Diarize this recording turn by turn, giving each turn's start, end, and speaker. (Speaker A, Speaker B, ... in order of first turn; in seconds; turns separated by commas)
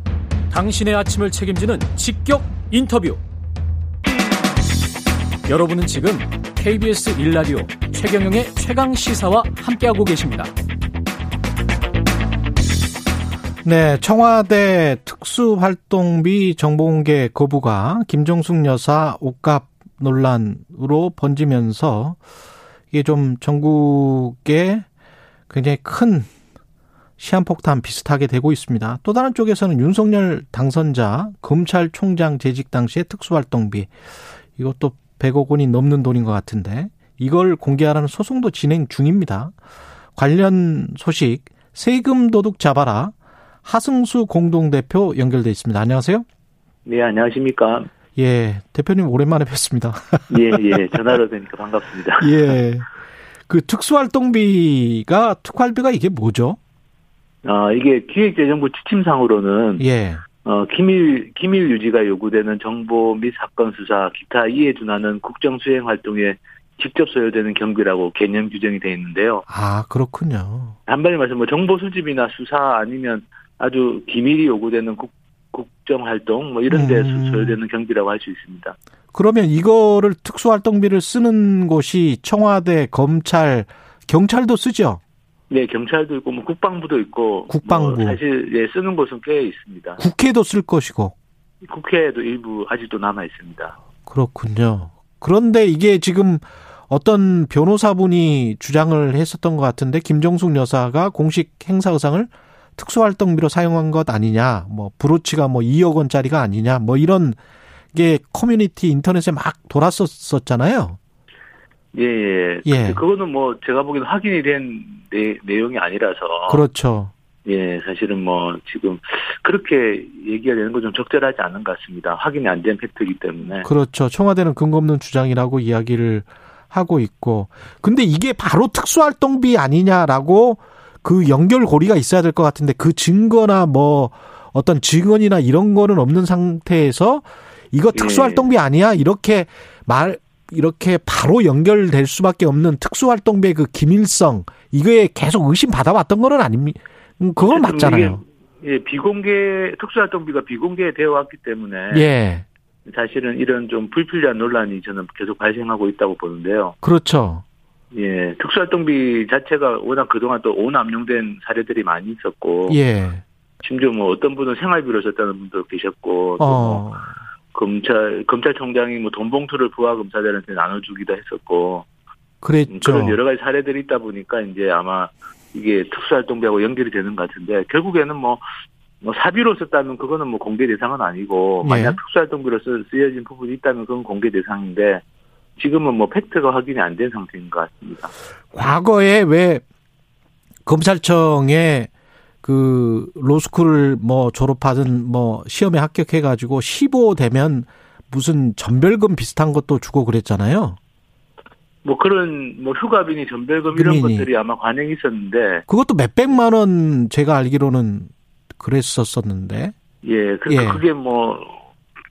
Speaker A: 0.5-3.2, Speaker A: 5.5-10.5, Speaker B: 13.6-22.2, Speaker B: 22.9-24.9, Speaker B: 25.5-26.3, Speaker B: 27.2-33.9, Speaker B: 34.6-39.5, Speaker B: 40.2-43.1, Speaker B: 43.6-46.2, Speaker C: 46.9-47.9, Speaker B: 48.2-50.8, Speaker C: 50.3-52.6, Speaker B: 52.2-52.9, Speaker B: 53.5-56.6, Speaker C: 57.4-59.9, Speaker B: 59.8-60.2, Speaker C: 60.4-69.5, Speaker B: 69.5-70.8, Speaker C: 70.9-78.8, Speaker B: 76.7-77.6, Speaker B: 79.1-85.0, Speaker C: 85.5-90.0, Speaker B: 87.5-88.2, Speaker B: 90.0-91.1, Speaker C: 91.6-93.8, Speaker B: 94.1-107.4, Speaker B: 107.9-111.0, Speaker C: 111.9-116.7, Speaker B: 112.7-113.0, Speaker B: 116.5-117.1, Speaker C: 117.5-123.7, Speaker B: 123.6-148.2, Speaker C: 137.9-138.5, Speaker C: 147.4-152.1, Speaker B: 151.9-152.4, Speaker C: 152.8-156.8, Speaker B: 156.8-157.4, Speaker C: 157.9-162.8, Speaker B: 162.7-163.2, Speaker C: 163.6-166.8, Speaker B: 166.4-167.1, Speaker C: 167.5-171.9, Speaker B: 172.4-173.2, Speaker C: 172.7-178.4, Speaker C: 179.0-185.0, Speaker B: 181.6-182.0, Speaker C: 185.6-188.1, Speaker B: 188.5-189.6, Speaker B: 190.7-191.9, Speaker B: 192.4-200.8, Speaker C: 201.8-205.6, Speaker B: 203.7-204.3, Speaker B: 205.7-209.7, Speaker C: 210.0-211.7, Speaker B: 210.5-210.8